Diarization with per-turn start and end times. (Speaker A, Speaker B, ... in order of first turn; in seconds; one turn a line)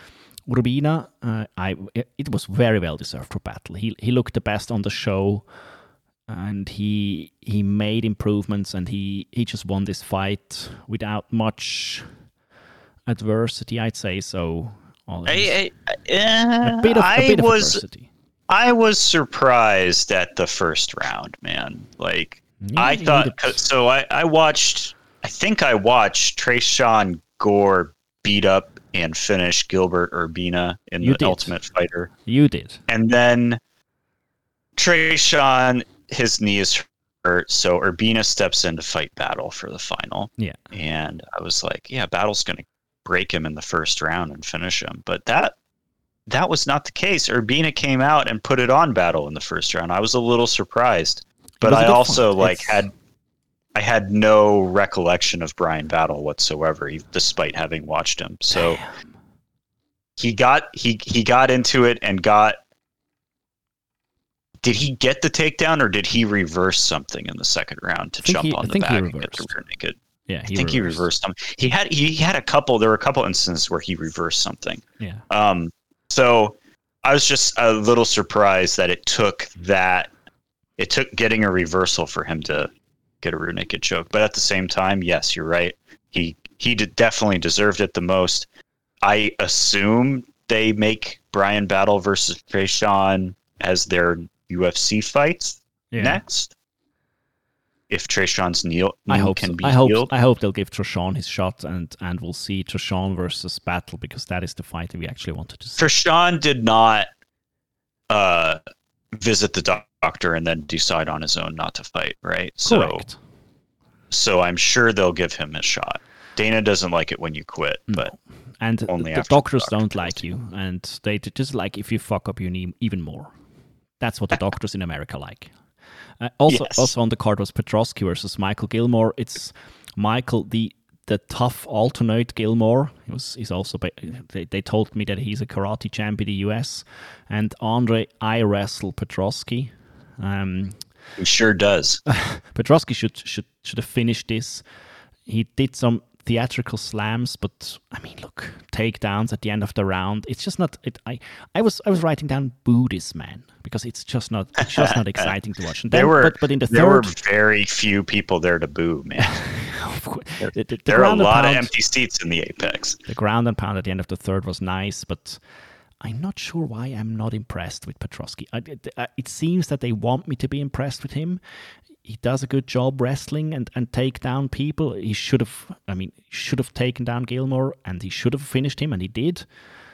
Speaker A: 0.5-5.5
Speaker A: 6.3-12.1
Speaker A: 13.1-15.6
Speaker B: 15.3-17.8
Speaker A: 16.6-18.1
Speaker B: 18.5-32.1
Speaker A: 22.6-23.6
Speaker A: 31.0-31.5
Speaker A: 32.2-32.8
Speaker B: 32.9-33.6
Speaker B: 34.8-45.5
Speaker B: 46.3-52.9
Speaker A: 51.6-52.8
Speaker B: 53.7-58.8
Speaker A: 58.5-58.9
Speaker B: 60.2-62.6
Speaker B: 64.6-70.0
Speaker A: 68.2-69.5
Speaker A: 70.3-71.0
Speaker B: 70.5-80.1
Speaker B: 80.8-82.7
Speaker B: 83.2-88.5
Speaker B: 89.0-96.5
Speaker A: 95.9-96.2
Speaker B: 97.9-100.1
Speaker A: 99.1-105.8
Speaker B: 105.8-107.1
Speaker B: 108.1-108.6
Speaker B: 109.1-113.0
Speaker A: 112.7-113.2
Speaker B: 114.1-118.1
Speaker A: 117.9-123.3
Speaker B: 118.9-120.2
Speaker A: 124.0-125.5
Speaker A: 126.2-140.8
Speaker B: 126.5-126.9
Speaker B: 141.2-142.0
Speaker A: 142.1-144.6
Speaker A: 145.2-157.1
Speaker B: 154.8-155.3
Speaker B: 155.9-159.4
Speaker A: 159.2-161.7
Speaker B: 160.4-163.0
Speaker A: 163.1-165.4
Speaker A: 166.0-171.4
Speaker A: 172.0-179.4